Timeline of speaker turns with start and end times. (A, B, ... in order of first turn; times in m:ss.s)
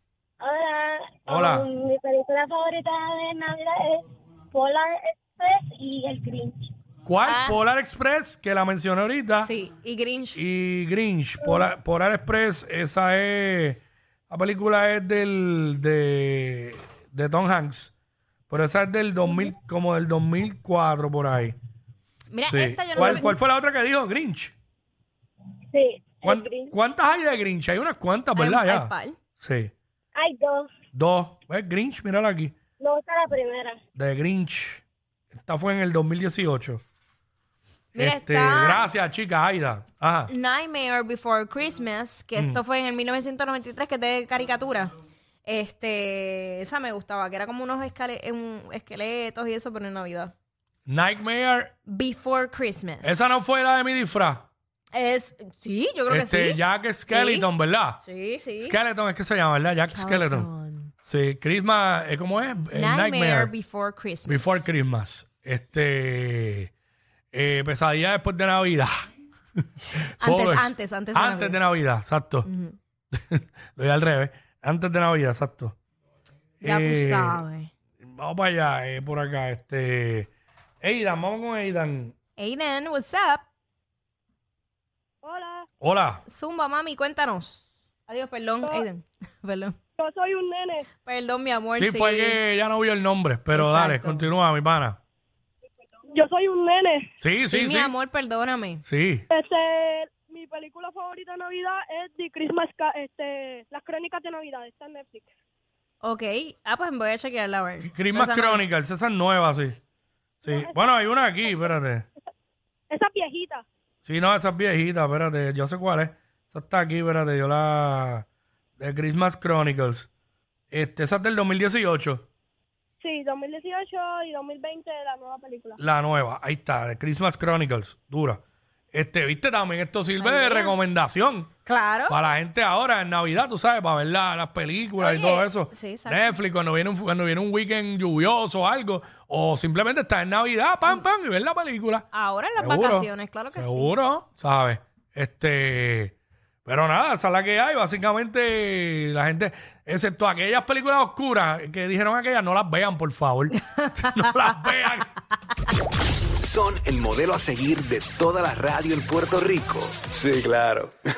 0:00.4-0:06.7 A
0:01.3-0:01.6 B
0:07.0-0:09.5 B
0:07.2-0:07.6 C
0:09.4-0:10.4 C
0:10.3-0:17.9 B
0:18.5-0:21.6 B
0:22.3-0:23.3 C
0:22.4-0:24.5 B
0:25.7-0:26.7 A
0:26.2-0:29.7 B
0:28.3-0:29.2 C
0:30.1-0:30.7 A
0:30.9-0:32.5 B
0:32.8-0:33.8 A
0:33.9-0:34.8 B
0:35.3-0:36.8 B
0:37.9-0:40.3 B
0:38.0-0:38.8 C
0:40.3-0:44.9 C
0:42.4-0:42.6 B
0:45.4-0:50.3 C
0:50.9-0:51.7 B
0:51.8-0:53.4 C
0:53.0-0:54.4 B
0:54.9-0:57.5 C
0:56.1-0:58.0 B
0:58.0-0:58.8 C
0:58.6-1:00.5 B
0:59.6-1:00.9 C
1:01.0-1:03.5 B
1:02.7-1:04.7 C
1:04.3-1:06.7 B
1:07.3-1:09.0 B
1:10.0-1:12.5 B
1:10.2-1:11.6 C
1:12.4-1:12.8 C
1:13.1-1:15.8 B
1:16.6-1:17.4 B
1:16.6-1:17.7 C
1:18.0-1:20.3 B
1:20.8-1:22.1 B
1:22.4-1:23.4 C
1:25.2-1:25.6 D
1:25.8-1:26.2 B
1:26.2-1:29.8 C
1:30.0-1:30.9 D
1:31.0-1:32.4 C
1:31.8-1:35.0 B
1:33.5-1:34.3 C
1:36.1-1:37.1 D
1:37.2-1:37.9 B
1:37.4-1:38.8 C
1:38.9-1:39.2 B
1:39.3-1:45.3 D
1:46.0-1:48.6 C
1:47.8-1:49.8 B
1:50.4-1:50.8 D
1:50.4-1:52.0 B
1:52.9-1:53.6 D
1:54.0-1:58.2 B
1:58.8-2:00.1 B
2:00.7-2:02.3 B
2:03.0-2:05.8 D
2:05.8-2:08.4 B
2:08.9-2:11.5 B
2:10.2-2:10.8 C
2:11.6-2:12.2 C
2:12.1-2:22.0 B
2:15.0-2:16.4 C
2:22.1-2:23.9 C
2:22.6-2:26.1 B
2:26.6-2:35.1 B
2:36.4-2:40.9 E